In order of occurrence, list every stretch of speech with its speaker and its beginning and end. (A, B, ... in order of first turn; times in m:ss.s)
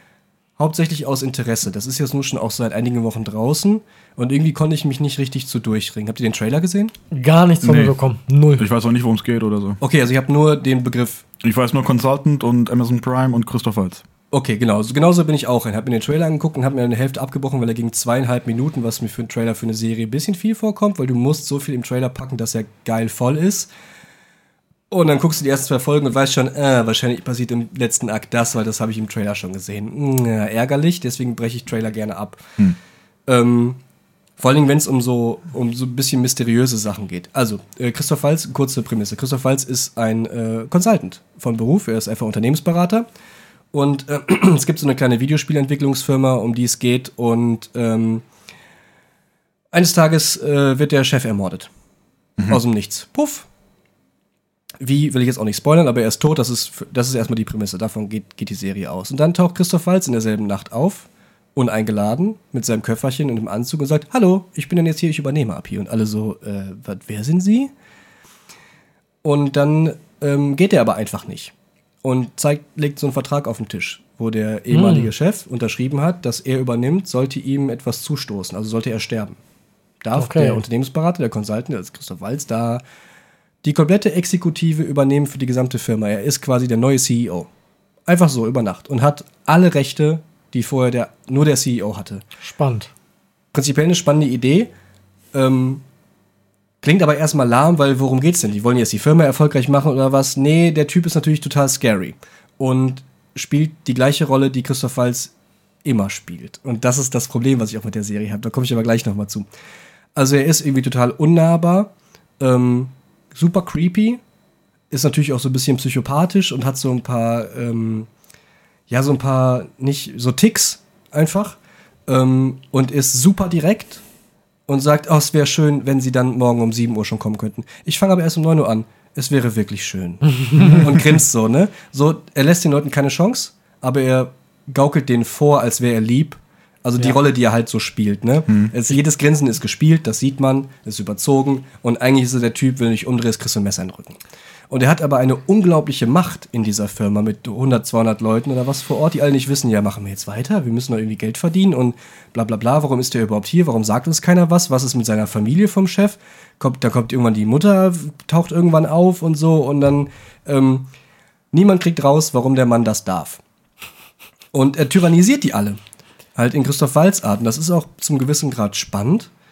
0:00.6-0:06.9 A
0:07.1-0:08.6 B
0:07.6-0:08.0 C
0:08.6-0:09.8 C
0:09.8-0:11.2 A
0:11.4-0:14.0 C
0:14.3-0:23.7 A
0:24.9-0:32.6 A
0:33.3-0:33.8 A
0:34.4-0:43.0 A
0:43.7-0:48.2 A
0:49.7-0:51.7 A
0:52.5-0:53.5 A
0:54.8-1:07.7 A
1:09.2-1:19.4 A
1:14.7-1:15.1 B
1:20.0-1:22.8 A
1:20.2-1:20.6 B
1:23.6-1:27.5 A
1:28.0-1:32.2 A
1:32.4-1:32.9 B
1:33.5-1:34.7 A
1:35.3-1:35.8 A
1:36.8-1:45.3 A
1:45.8-1:49.5 A
1:50.2-1:54.2 A
1:54.9-1:58.1 A
1:58.9-2:04.0 A
2:04.7-2:40.9 A
2:10.4-2:10.9 B
2:41.5-2:43.4 A
2:44.5-2:45.8 A
2:46.4-2:49.3 A